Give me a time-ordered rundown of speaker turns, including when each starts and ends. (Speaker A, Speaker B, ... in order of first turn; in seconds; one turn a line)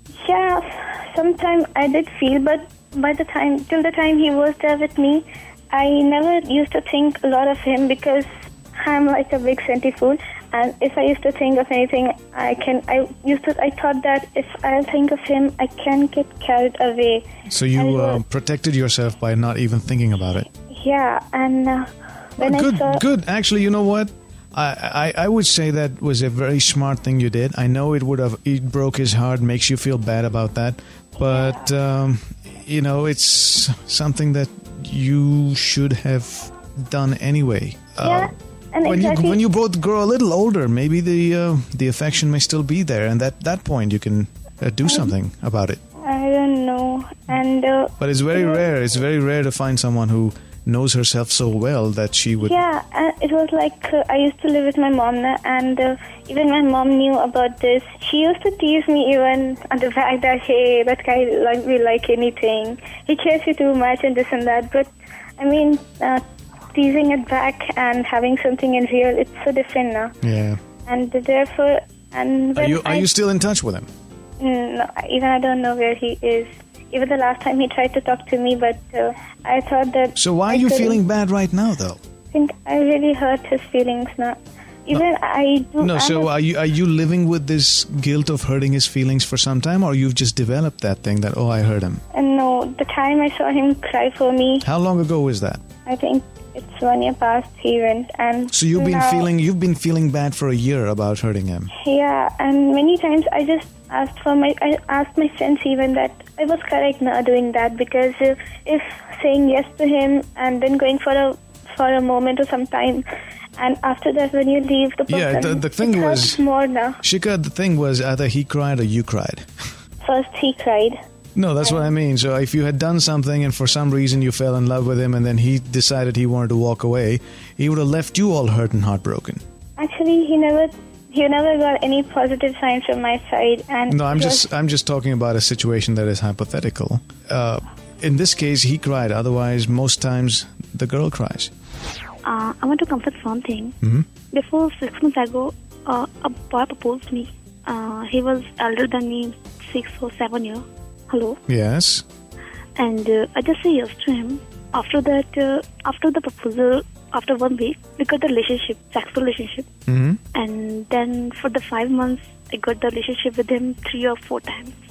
Speaker A: 0.2-18.2
Speaker B: 17.5-20.5
Speaker A: 20.6-23.0
Speaker B: 22.4-38.3
Speaker A: 31.3-31.6
Speaker A: 38.0-39.4
Speaker B: 38.8-45.8
Speaker A: 44.9-45.1
Speaker A: 46.0-48.7
Speaker B: 48.0-52.6
Speaker A: 52.4-66.2
Speaker A: 66.7-70.1
Speaker B: 70.2-70.6
Speaker A: 70.8-73.1
Speaker B: 72.5-73.9
Speaker A: 74.4-81.0
Speaker B: 80.2-82.0
Speaker A: 82.3-86.3
Speaker B: 85.8-92.0
Speaker A: 92.1-94.7
Speaker B: 94.6-95.6
Speaker A: 95.8-99.3
Speaker B: 98.5-101.7
Speaker A: 101.8-113.0
Speaker A: 113.6-117.0
Speaker B: 115.1-116.4
Speaker B: 117.0-119.5
Speaker A: 120.0-121.0
Speaker B: 121.3-129.4
Speaker A: 129.8-134.5
Speaker B: 133.9-141.5
Speaker C: 142.2-143.7
Speaker C: 144.3-151.4
Speaker B: 151.5-152.0
Speaker C: 152.8-159.7
Speaker B: 159.9-160.2
Speaker C: 160.3-164.7